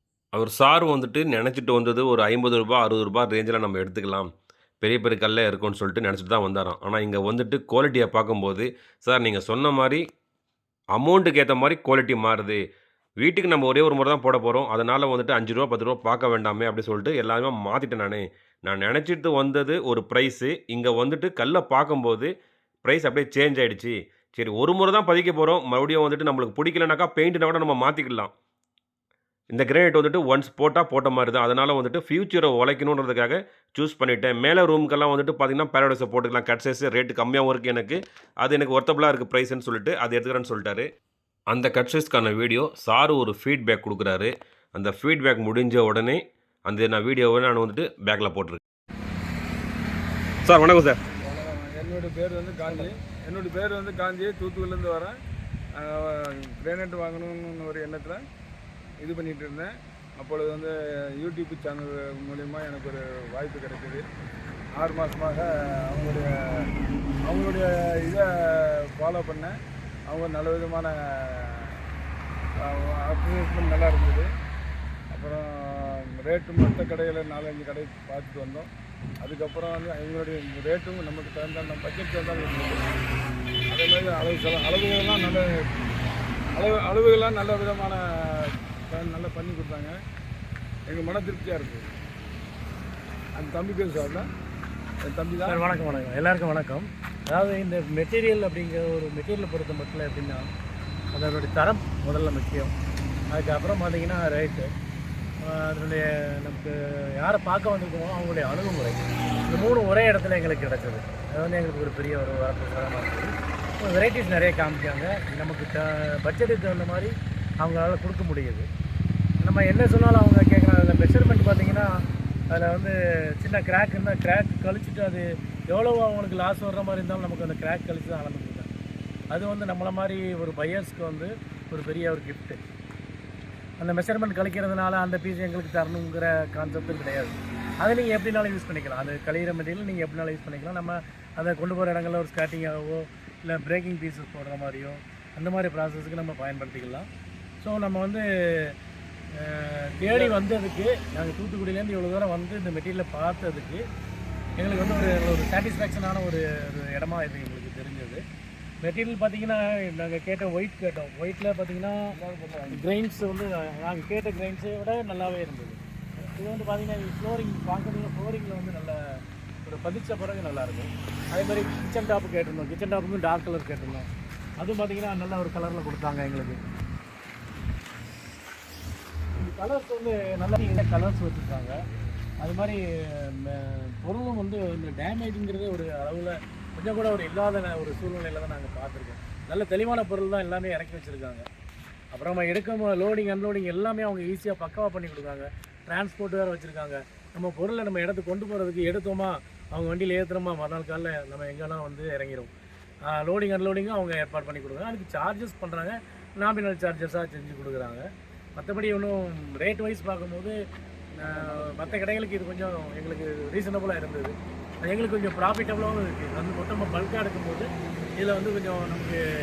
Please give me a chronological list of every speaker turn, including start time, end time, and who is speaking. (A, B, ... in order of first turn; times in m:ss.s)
0:00.4-0:04.3 A
0:04.8-0:10.0 A
0:11.0-0:12.6 A
0:13.2-0:22.3 A
0:22.8-0:28.3 A
0:29.5-0:40.8 A
0:41.5-0:48.6 A
0:50.4-0:51.0 A
0:51.2-0:55.1 B
0:55.8-0:58.2 B
0:59.0-1:04.0 B
1:04.8-1:06.7 B
1:07.3-1:09.5 B
1:10.1-1:11.8 B
1:12.6-1:14.3 B
1:15.1-1:18.7 B
1:19.2-1:22.9 B
1:23.7-1:25.5 B
1:26.6-1:30.0 B
1:30.9-1:31.8 B
1:33.4-1:34.3 B
1:35.0-1:36.1 B
1:35.5-1:40.4 C
1:41.1-1:42.7 C
1:43.3-1:44.7 C
1:45.5-1:58.7 C
1:59.4-2:01.9 C
2:02.5-2:08.7 C
2:09.3-2:12.6 C
2:13.8-2:27.1 C
2:27.6-2:28.7 C
2:29.4-2:33.8 C
2:30.1-2:30.4 B
2:34.6-2:38.2 C
2:38.8-2:42.0 C
2:42.1-2:42.8 B
2:42.8-2:45.8 C
2:46.4-2:49.0 C
2:49.6-2:54.1 C
2:54.6-2:56.6 C
2:59.4-3:01.8 C
3:02.4-3:02.8 C
3:03.4-3:11.4 C
3:12.1-3:22.5 C
3:23.1-3:28.0 C
3:28.6-3:30.5 C
3:31.2-3:34.3 C
3:31.2-3:32.0 B
3:34.8-3:37.7 C
3:38.2-3:39.2 C